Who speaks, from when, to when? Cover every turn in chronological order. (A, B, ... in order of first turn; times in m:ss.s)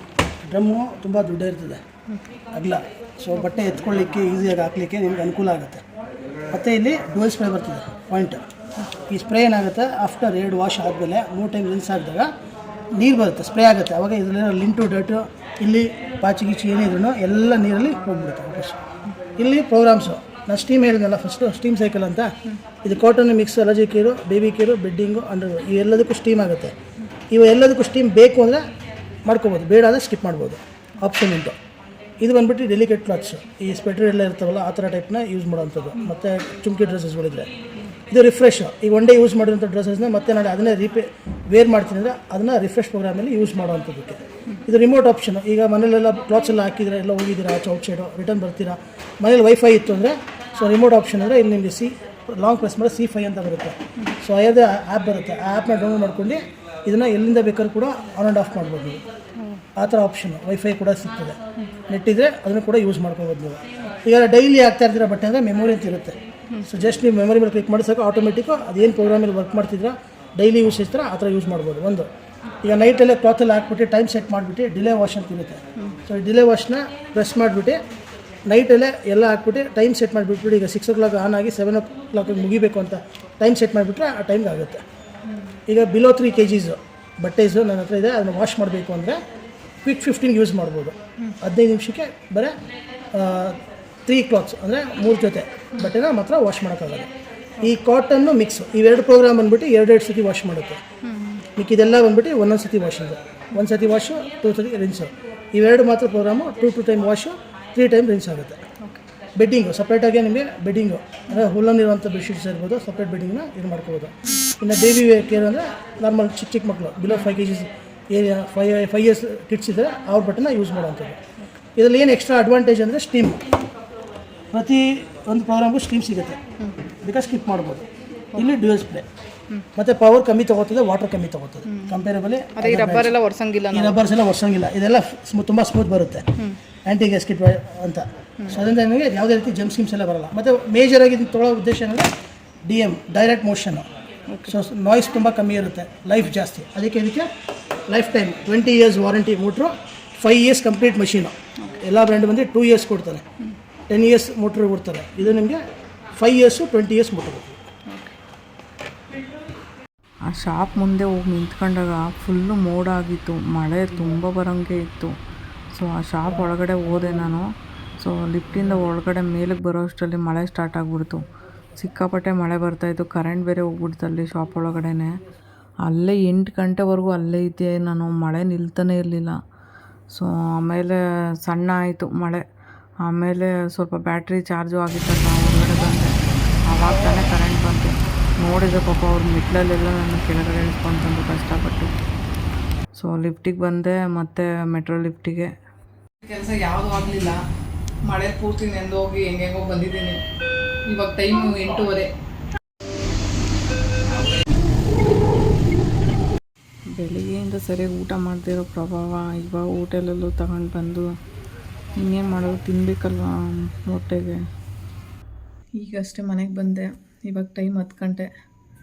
0:00.4-0:01.8 A
0:02.5-0:05.8 A
0:06.5-0:08.4 A
0:09.1-0:12.3 A
0:12.9-0:18.8 A
0:19.4-0:22.3 A
0:22.8-0:26.7 A
0:27.3-0:28.6 A
0:29.2-0:31.6 A
0:32.2-0:37.5 A
0:38.1-0:59.0 A
0:59.4-0:59.6 B
0:59.8-1:01.4 A
1:01.9-1:12.1 A
1:12.6-1:17.8 A
1:18.5-1:24.8 A
1:25.7-1:29.2 A
1:29.8-1:32.5 A
1:33.1-1:37.1 A
1:37.6-1:40.8 A
1:41.0-1:41.4 B
1:41.6-1:48.6 A
1:49.4-2:01.2 A
2:01.8-2:03.4 A
2:04.5-2:06.4 A
2:07.0-2:09.1 A
2:09.8-2:13.1 A
2:11.6-2:12.0 B
2:12.5-2:14.0 B
2:13.7-2:16.2 A
2:16.8-2:22.1 A
2:22.6-2:23.9 A
2:24.3-2:24.6 B
2:24.5-2:27.3 A
2:27.9-2:33.2 A
2:33.9-2:35.6 A
2:36.2-2:37.6 A
2:37.9-2:38.2 B
2:40.3-2:45.1 C
2:45.7-2:47.5 C
2:48.0-2:55.2 C
2:55.8-2:59.4 C
3:00.1-3:02.4 C
3:03.0-3:06.1 C
3:06.7-3:11.9 C
3:13.0-3:15.5 C
3:16.2-3:17.4 B
3:18.0-3:20.2 B
3:20.9-3:22.1 B
3:27.0-3:31.1 C
3:32.0-3:34.4 C
3:35.8-3:38.3 B